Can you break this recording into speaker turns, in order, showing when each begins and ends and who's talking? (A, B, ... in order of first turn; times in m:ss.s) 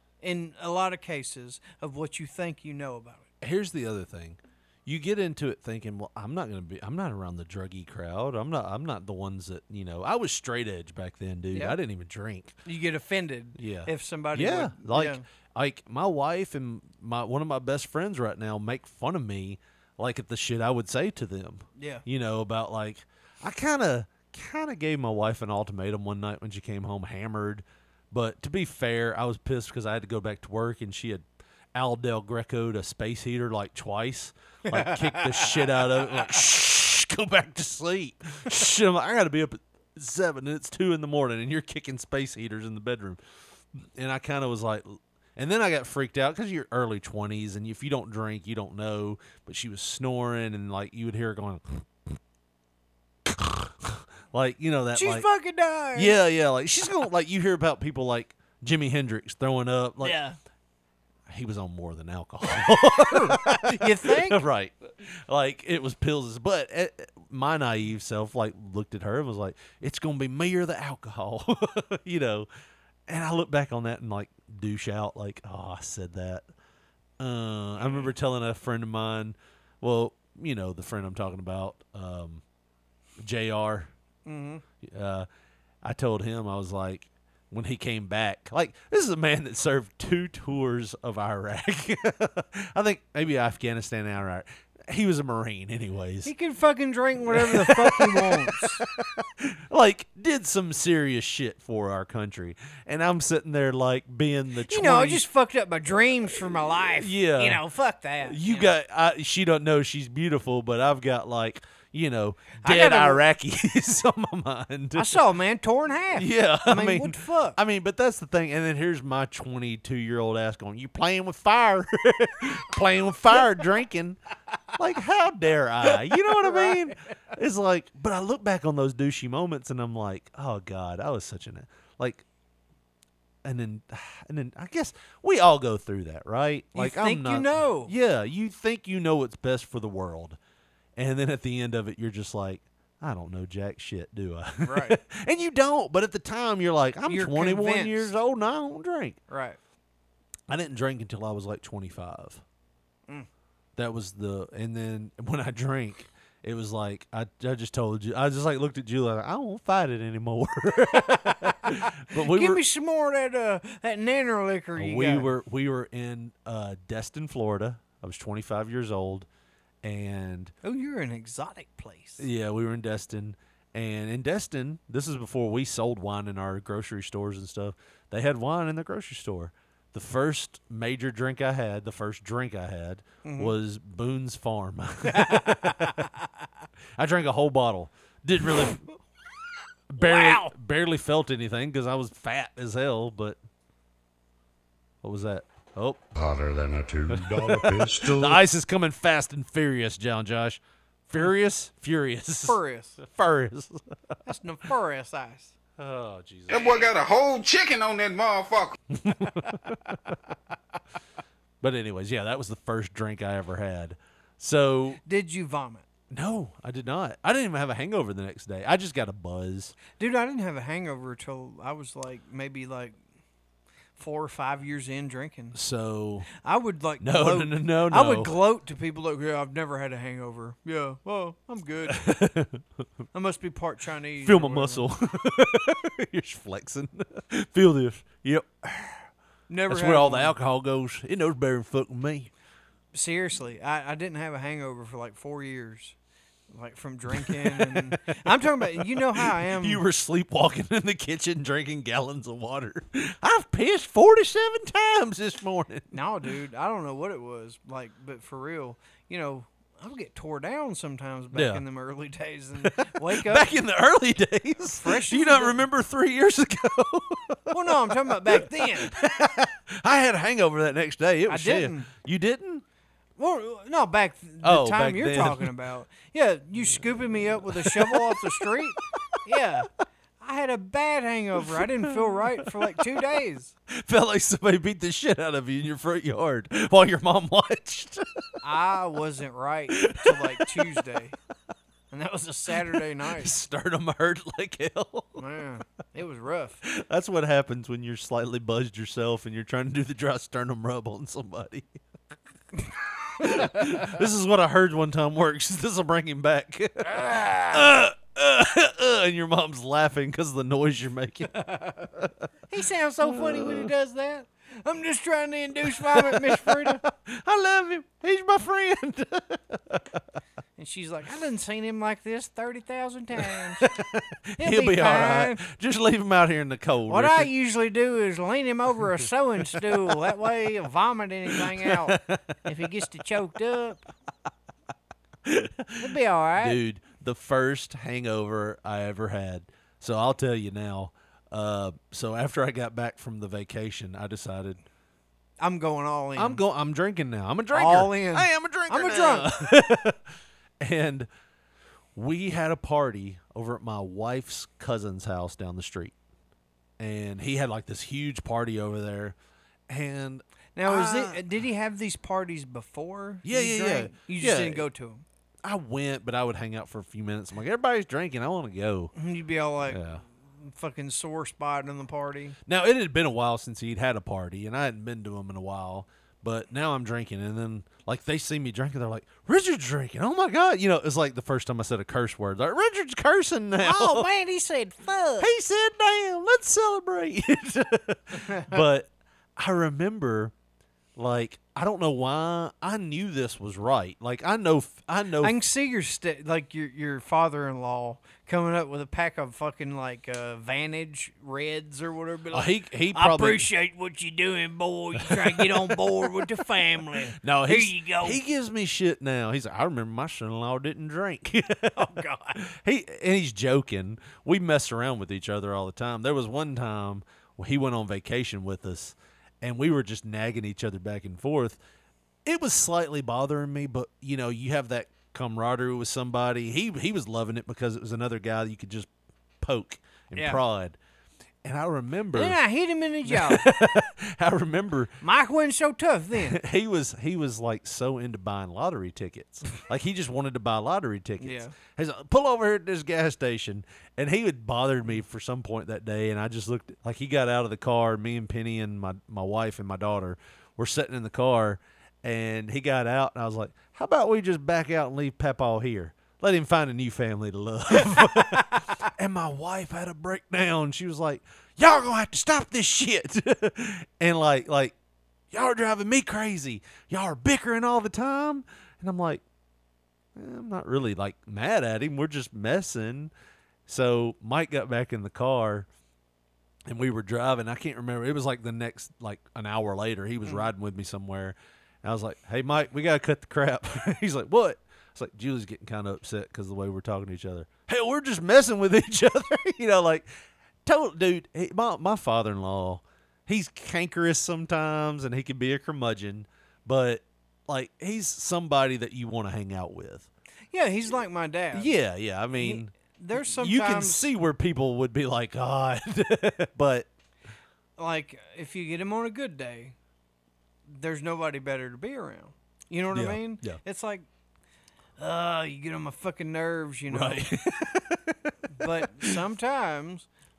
0:00.2-0:03.2 A
0:03.4-0:12.6 B
0:11.5-0:11.8 A
0:12.6-0:15.2 A
0:13.6-0:43.2 B
0:21.8-0:22.0 A
0:34.7-0:36.0 A
0:44.0-0:51.8 B
0:53.2-0:55.3 B
0:54.9-0:56.2 A
0:55.9-1:00.2 B
1:00.0-1:00.4 A
1:01.3-1:12.5 B
1:02.8-1:04.4 A
1:13.1-1:16.4 B
1:17.2-1:22.4 B
1:17.8-1:18.1 A
1:23.2-1:23.9 B
1:24.2-1:24.6 A
1:24.8-1:25.3 B
1:25.8-1:36.3 B
1:36.2-1:38.8 A
1:37.2-1:45.2 B
1:44.7-1:48.7 A
1:46.9-1:47.6 B
1:48.2-1:55.2 B
1:52.6-1:53.2 A
1:54.9-1:57.6 A
1:56.1-2:04.2 B
2:04.8-2:12.2 B
2:06.2-2:06.8 A
2:13.4-2:20.4 B
2:16.7-2:17.9 A
2:21.0-2:29.2 B
2:24.6-2:25.0 A
2:27.0-2:28.1 A
2:29.3-2:29.6 A
2:30.5-2:32.4 B
2:33.8-2:42.6 B
2:41.3-2:45.3 A
2:44.8-2:49.3 B
2:49.8-2:50.5 B
2:50.6-2:52.3 A
2:52.2-3:06.1 B
3:03.2-3:03.5 A
3:05.0-3:06.2 A
3:07.0-3:08.8 B
3:09.9-3:13.4 B
3:10.0-3:10.5 A
3:15.0-3:16.0 B
3:16.1-3:18.4 C
3:17.1-3:24.2 B
3:22.4-3:23.0 A
3:24.2-3:25.5 A
3:25.8-3:26.9 B
3:26.5-3:28.8 D
3:28.9-3:29.9 B
3:31.6-3:35.0 B
3:35.0-3:35.8 A
3:36.1-3:39.8 B
3:40.0-3:43.0 A
3:44.0-3:45.6 A
3:45.5-3:46.3 B
3:46.4-3:52.1 A
3:47.0-3:48.4 B
3:51.9-3:52.8 B
3:53.1-3:54.9 A
3:54.2-3:59.1 B
3:59.5-4:00.3 A
3:59.7-4:02.3 B
4:02.9-4:05.9 A
4:06.5-4:09.8 A
4:07.1-4:16.0 B
4:15.9-4:23.6 A
4:21.3-4:21.6 B
4:22.6-4:32.6 B
4:24.7-4:25.6 A
4:27.5-4:28.9 A
4:31.3-4:31.9 A
4:33.2-4:39.7 A
4:34.4-4:35.5 B
4:37.4-4:38.6 B
4:40.2-4:43.5 A
4:41.5-4:42.8 B
4:43.7-4:48.0 B
4:48.4-4:51.1 A
4:49.7-4:50.8 B
4:51.9-4:53.3 A
4:52.7-4:55.2 B
4:55.2-4:56.6 A
4:56.6-5:01.7 B
5:03.2-5:12.1 B
5:03.2-5:03.6 A
5:11.4-5:11.8 A
5:12.5-5:16.8 A
5:13.0-5:13.7 B
5:15.7-5:19.8 B
5:20.6-5:23.7 A
5:23.2-5:27.3 B
5:24.4-5:25.4 A
5:26.9-5:33.8 A
5:29.6-5:29.9 B
5:31.3-5:32.6 B
5:35.2-5:44.6 B
5:35.8-5:36.6 A
5:45.4-5:46.4 A
5:46.2-5:50.0 B
5:47.5-5:49.3 A
5:50.6-5:51.1 B
5:51.9-5:55.9 B
5:56.8-5:59.2 B
5:59.7-6:01.2 B
6:00.6-6:05.0 A
6:03.2-6:04.6 B
6:05.4-6:08.9 B
6:08.9-6:09.8 A
6:09.6-6:10.0 B
6:10.4-6:12.4 A
6:12.4-6:24.1 B
6:23.6-6:25.3 A
6:25.2-6:30.3 B
6:28.1-6:28.6 A
6:31.0-6:35.4 B
6:35.2-6:48.2 A
6:42.3-6:43.5 B
6:45.0-6:46.2 B
6:47.2-7:01.6 B
6:51.7-6:52.4 A
7:02.2-7:08.9 B
7:09.4-7:10.8 B
7:10.1-7:10.4 A
7:11.4-7:12.4 B
7:12.1-7:13.5 A
7:13.0-7:14.9 B
7:15.0-7:16.4 A
7:16.1-7:44.7 B
7:21.2-7:21.5 A
7:37.9-7:38.7 A
7:45.3-7:49.2 B
7:50.1-7:53.1 B
7:53.7-7:55.7 B
7:56.7-8:10.1 B
8:10.6-8:20.1 B
8:20.5-8:21.7 A
8:21.5-8:26.9 B
8:22.4-8:24.1 A
8:27.8-8:29.7 A
8:30.7-8:34.0 A
8:32.9-8:33.6 B
8:35.0-8:37.2 A
8:36.9-8:39.2 B
8:38.5-8:40.1 A